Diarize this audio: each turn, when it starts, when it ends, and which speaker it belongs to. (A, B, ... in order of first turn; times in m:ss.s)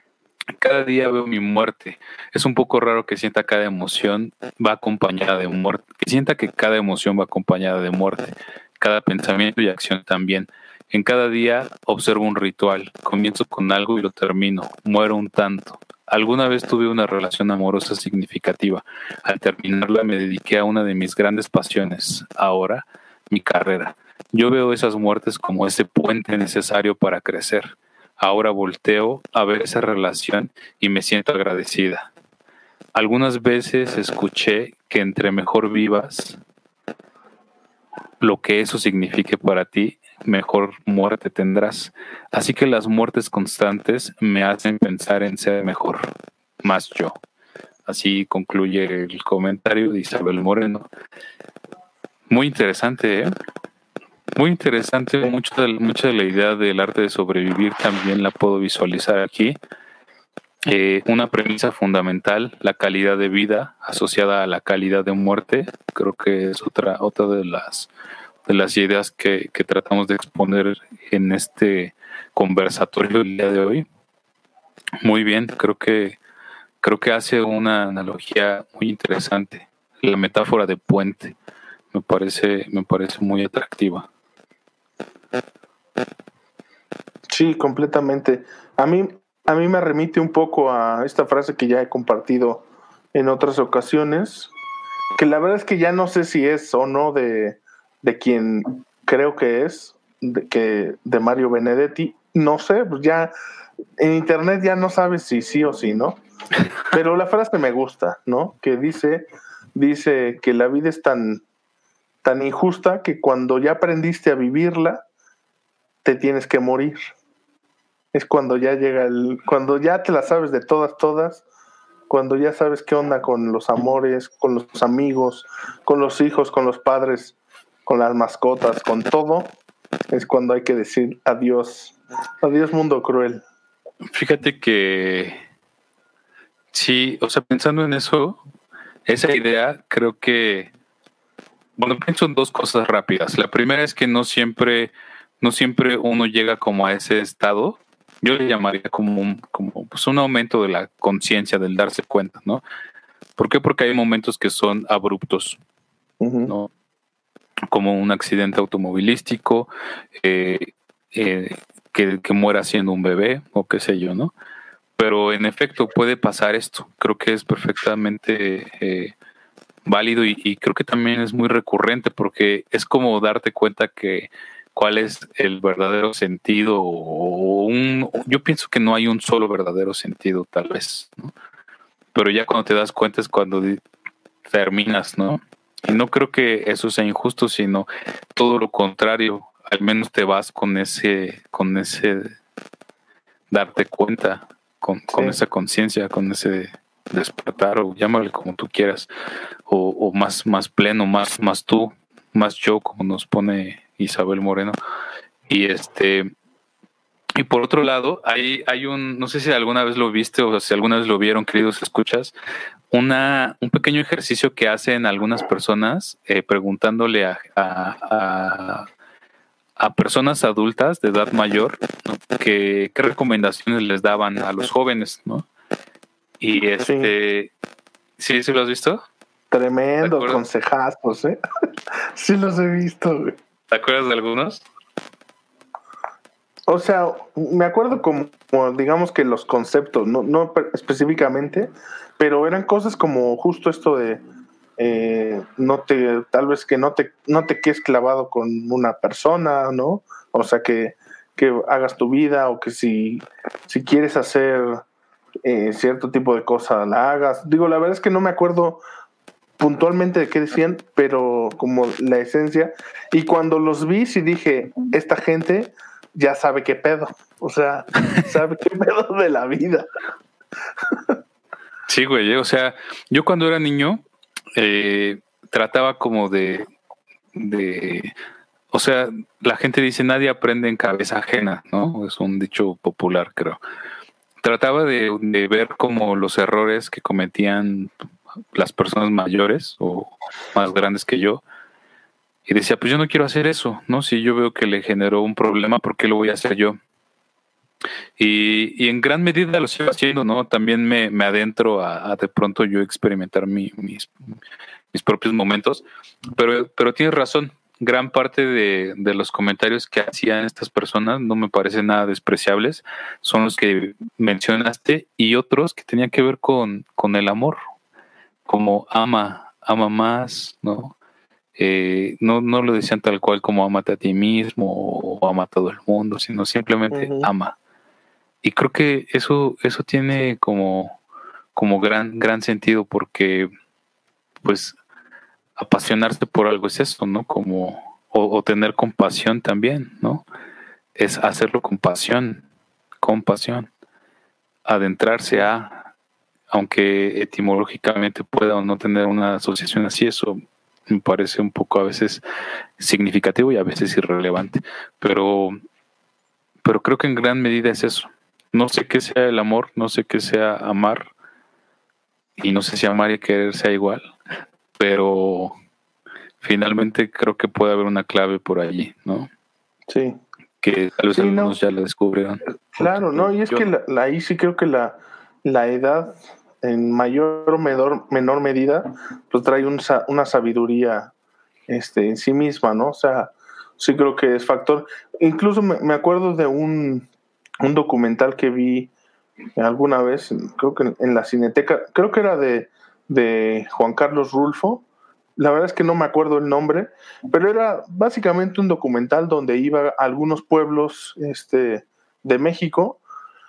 0:00.5-0:32.1 A
0:33.0-0:36.4 A
0:38.2-0:46.1 A
0:46.6-0:47.2 A
0:47.9-0:50.9 A
0:52.3-0:53.3 A
0:54.4-0:59.6 A
1:00.7-1:07.9 A
1:08.5-1:13.9 A
1:15.0-1:16.2 A
1:16.8-1:21.4 A
1:21.9-1:24.1 A
1:27.3-1:34.5 B
1:35.2-1:43.3 B
1:44.0-1:46.2 B
1:46.9-1:51.4 B
1:52.2-1:55.0 B
1:56.0-1:57.1 B
1:58.1-2:01.4 B
2:02.1-2:07.4 B
2:07.9-2:09.5 B
2:10.1-2:13.4 B
2:14.1-2:15.4 A
2:16.7-2:18.4 A
2:19.1-2:20.7 A
2:21.8-2:32.6 A
2:33.4-2:35.6 A
2:36.2-2:36.5 B
2:37.7-2:44.3 A
2:45.0-2:49.1 A
2:49.9-3:01.3 A
3:02.1-3:03.8 A
3:04.4-3:12.4 A
3:13.5-3:19.1 A
3:15.1-3:15.4 B
3:19.7-3:24.8 A
3:25.5-3:26.3 A
3:27.4-3:32.3 A
3:32.9-3:38.9 A
3:39.8-3:45.5 A
3:46.4-3:47.5 A
3:46.8-3:47.1 B
3:48.2-3:49.0 A
3:49.5-3:51.4 B
3:50.0-3:50.4 A
3:52.2-3:53.3 B
3:53.7-3:54.6 A
3:56.7-4:04.2 B
4:04.8-4:14.8 B
4:15.4-4:18.8 B
4:19.6-4:29.9 B
4:31.9-4:34.0 A
4:34.6-4:36.7 A
4:37.3-4:38.1 A
4:38.7-4:43.6 A
4:44.4-4:47.9 A
4:48.5-4:51.4 A
4:52.5-4:56.8 A
4:58.2-5:04.1 A
5:04.9-5:17.6 A
5:18.5-5:20.9 A
5:21.6-5:27.6 A
5:26.9-5:27.3 B
5:28.4-5:31.0 A
5:31.5-5:33.5 A
5:34.4-5:34.8 A
5:35.6-5:40.2 A
5:41.0-5:42.5 A
5:43.0-5:43.7 A
5:44.7-5:45.9 A
5:46.5-5:52.2 A
5:52.8-5:55.6 A
5:56.6-6:01.1 A
6:02.4-6:04.1 A
6:04.8-6:05.6 A
6:06.4-6:09.3 A
6:09.9-6:10.2 B
6:10.6-6:13.7 A
6:11.1-6:11.6 B
6:12.8-6:21.1 B
6:21.7-6:27.1 B
6:27.6-6:28.9 B
6:29.6-6:34.8 B
6:35.4-6:43.0 B